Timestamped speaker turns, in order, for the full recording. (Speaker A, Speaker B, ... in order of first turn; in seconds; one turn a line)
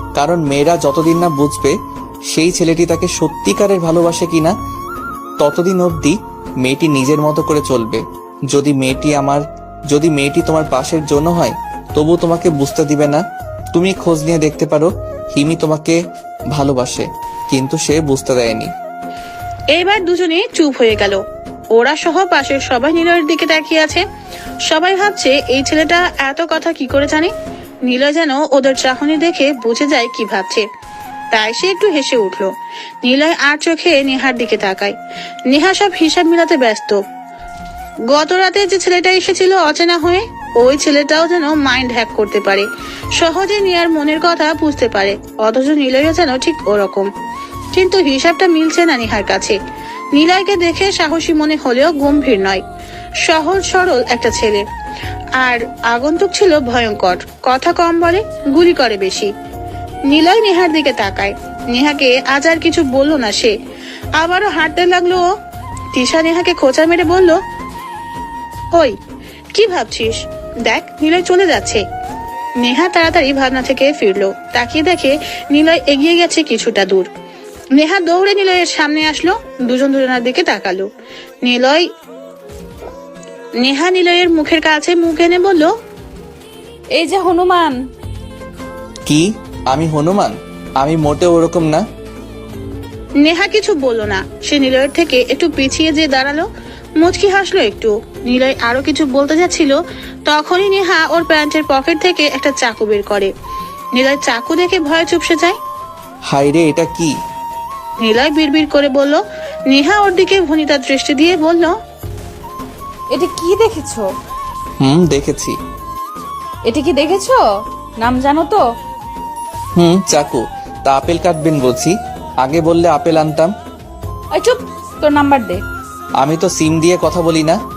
Speaker A: 0.2-1.8
Speaker A: 2.3-4.6
Speaker A: 5.4-16.0
Speaker A: 16.5-18.7
Speaker B: 19.7-21.2
Speaker B: 21.7-24.0
Speaker B: 24.7-27.3
Speaker B: 27.9-30.6
Speaker B: 31.3-32.5
Speaker B: 33.0-35.0
Speaker B: 35.5-37.0
Speaker B: 38.1-47.1
Speaker B: 47.7-49.6
Speaker B: 50.1-52.6
Speaker B: 53.2-54.6
Speaker B: 55.4-59.3
Speaker B: 60.1-63.5
Speaker B: 64.2-65.3
Speaker B: 65.9-67.4
Speaker B: 69.5-71.8
Speaker B: 72.6-77.1
Speaker B: 77.7-80.9
Speaker B: 81.4-81.9
Speaker B: 83.6-85.7
Speaker C: 87.0-87.8
Speaker A: 89.1-91.8
Speaker B: 93.2-96.5
Speaker B: 97.0-103.3
Speaker B: 104.0-105.6
Speaker A: 106.3-107.2
Speaker B: 108.0-111.8
Speaker C: 113.1-114.1
Speaker A: 114.8-115.6
Speaker C: 116.7-117.4
Speaker C: 118.0-118.6
Speaker A: 119.8-123.5
Speaker C: 124.3-125.6
Speaker A: 126.2-127.6